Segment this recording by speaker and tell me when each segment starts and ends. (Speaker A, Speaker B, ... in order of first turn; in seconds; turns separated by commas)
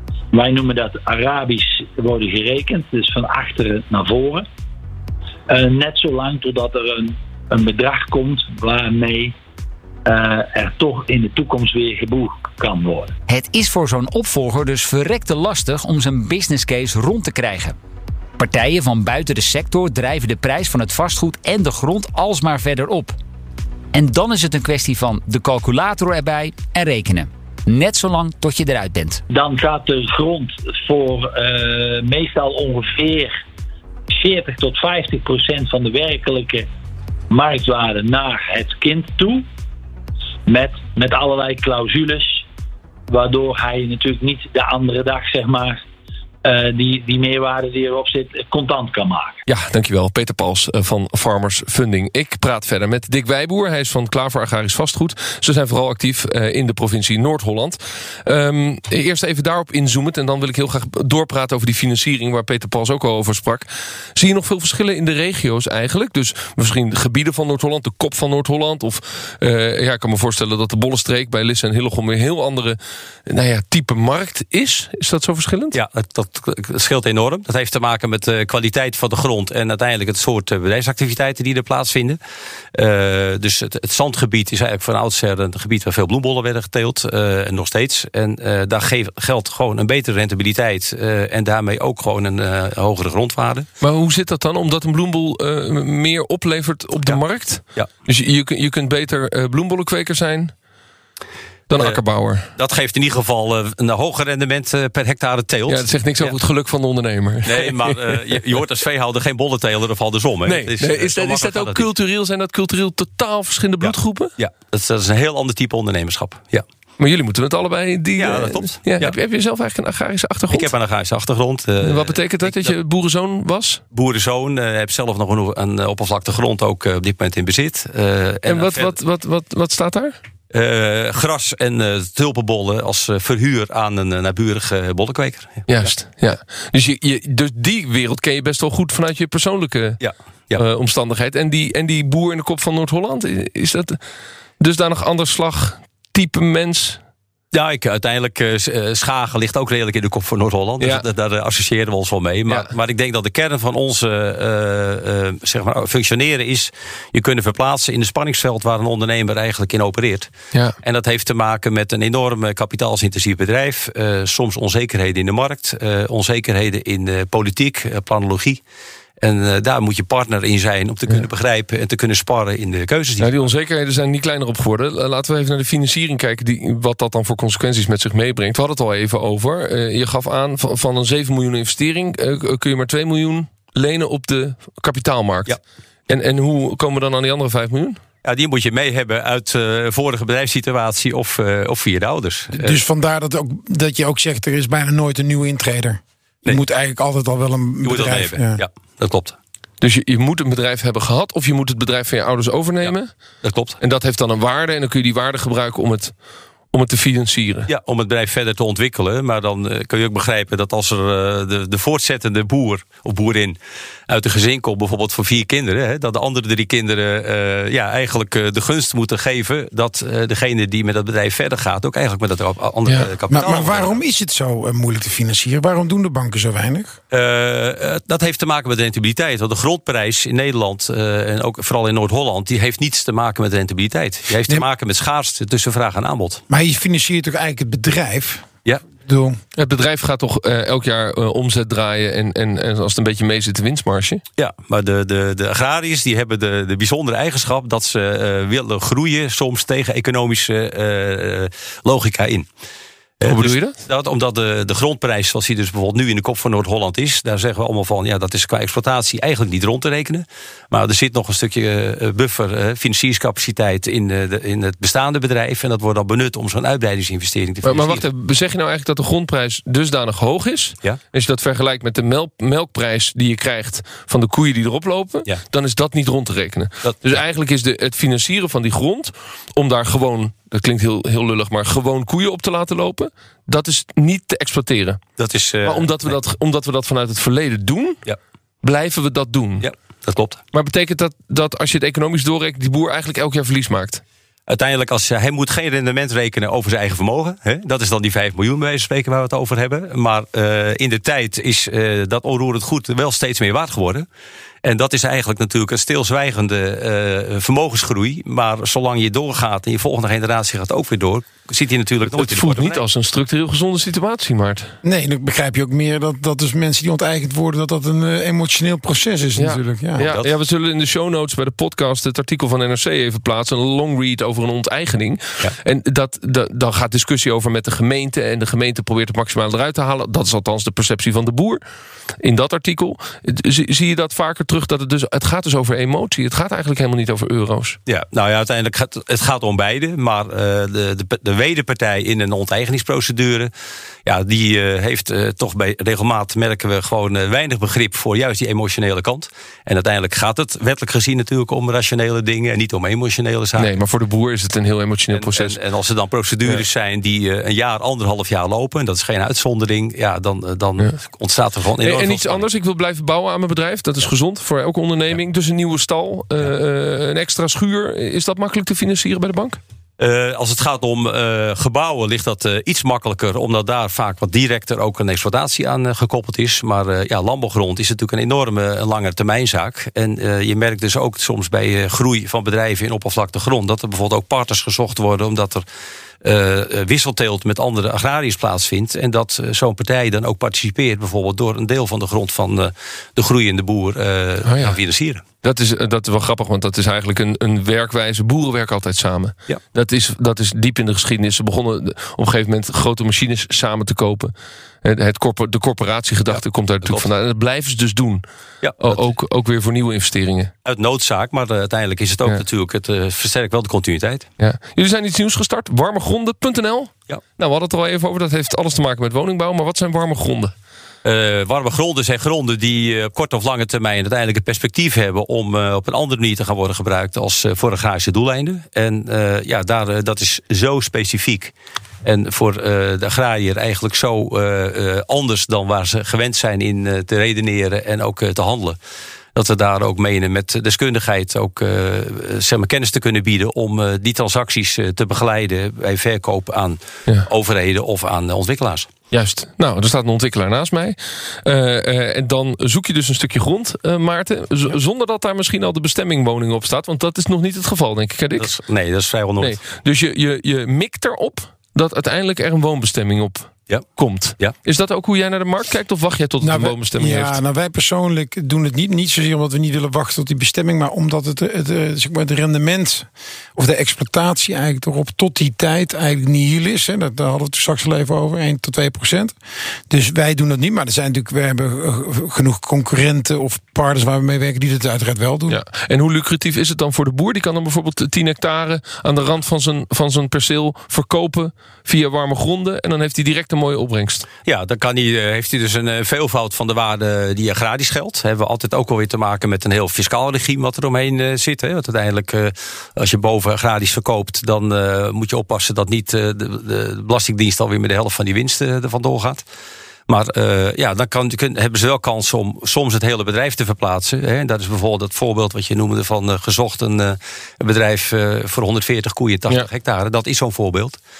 Speaker A: 0.3-4.4, Speaker A: 5.5-9.3, Speaker A: 10.1-13.1, Speaker B: 13.3-17.8, Speaker B: 18.4-23.1, Speaker B: 23.9-29.2, Speaker A: 29.3-33.3, Speaker A: 34.1-36.7, Speaker A: 37.3-39.4, Speaker A: 40.5-42.4, Speaker A: 43.1-45.8, Speaker A: 46.4-49.4, Speaker C: 49.5-75.8, Speaker D: 75.7-82.2, Speaker D: 82.7-93.7, Speaker C: 93.8-100.5, Speaker C: 101.7-102.5, Speaker D: 102.6-106.3, Speaker C: 105.7-108.0, Speaker D: 107.4-111.8, Speaker C: 110.5-114.3, Speaker D: 113.8-116.6, Speaker C: 117.0-120.7, Speaker D: 118.2-119.1, Speaker D: 120.5-122.7, Speaker C: 121.8-123.8, Speaker D: 123.9-128.9, Speaker C: 128.4-130.2, Speaker D: 130.5-135.9, Speaker C: 135.7-140.0, Speaker D: 140.0-140.6, Speaker C: 140.5-144.0, Speaker C: 144.6-147.0, Speaker D: 147.5-160.3, Speaker D: 160.8-168.6, Speaker D: 169.2-173.4, Speaker C: 173.2-185.6, Speaker C: 186.1-188.0, Speaker D: 188.2-192.8, Speaker E: 192.6-198.6, Speaker D: 197.8-199.3, Speaker C: 199.8-203.1, Speaker D: 202.8-203.8, Speaker C: 203.8-206.1, Speaker C: 206.7-207.7, Speaker D: 207.7-213.6, Speaker D: 214.1-224.0, Speaker E: 223.3-227.0, Speaker D: 227.1-236.4, Speaker E: 236.5-239.4, Speaker C: 239.6-244.2, Speaker D: 244.4-252.5, Speaker D: 253.2-268.1, Speaker C: 253.2-253.8, Speaker C: 267.6-285.0, Speaker D: 285.2-286.1, Speaker C: 285.6-288.0, Speaker C: 288.6-289.7, Speaker D: 289.6-290.4, Speaker C: 290.5-294.0, Speaker D: 294.5-304.1, Speaker D: 304.6-312.8, Speaker C: 312.1-314.7, Speaker E: 314.8-320.1, Speaker C: 319.4-331.6, Speaker D: 320.0-320.3, Speaker C: 332.2-337.8, Speaker D: 337.9-343.5, Speaker D: 344.0-353.7, Speaker C: 353.6-355.6, Speaker D: 355.1-362.4, Speaker C: 361.8-369.6, Speaker D: 370.0-385.6, Speaker D: 386.2-395.2, Speaker C: 394.4-394.8, Speaker C: 395.4-408.2, Speaker D: 406.3-407.1, Speaker D: 408.6-409.0, Speaker C: 408.8-410.5, Speaker D: 410.6-414.3, Speaker C: 414.4-420.5, Speaker D: 421.0-431.5, Speaker D: 432.0-438.8, Speaker D: 439.3-448.9, Speaker C: 449.1-458.5, Speaker D: 458.4-459.6, Speaker C: 459.4-467.4, Speaker E: 466.4-479.3, Speaker E: 479.9-485.6, Speaker C: 485.5-494.3, Speaker D: 494.4-509.4, Speaker D: 510.1-521.0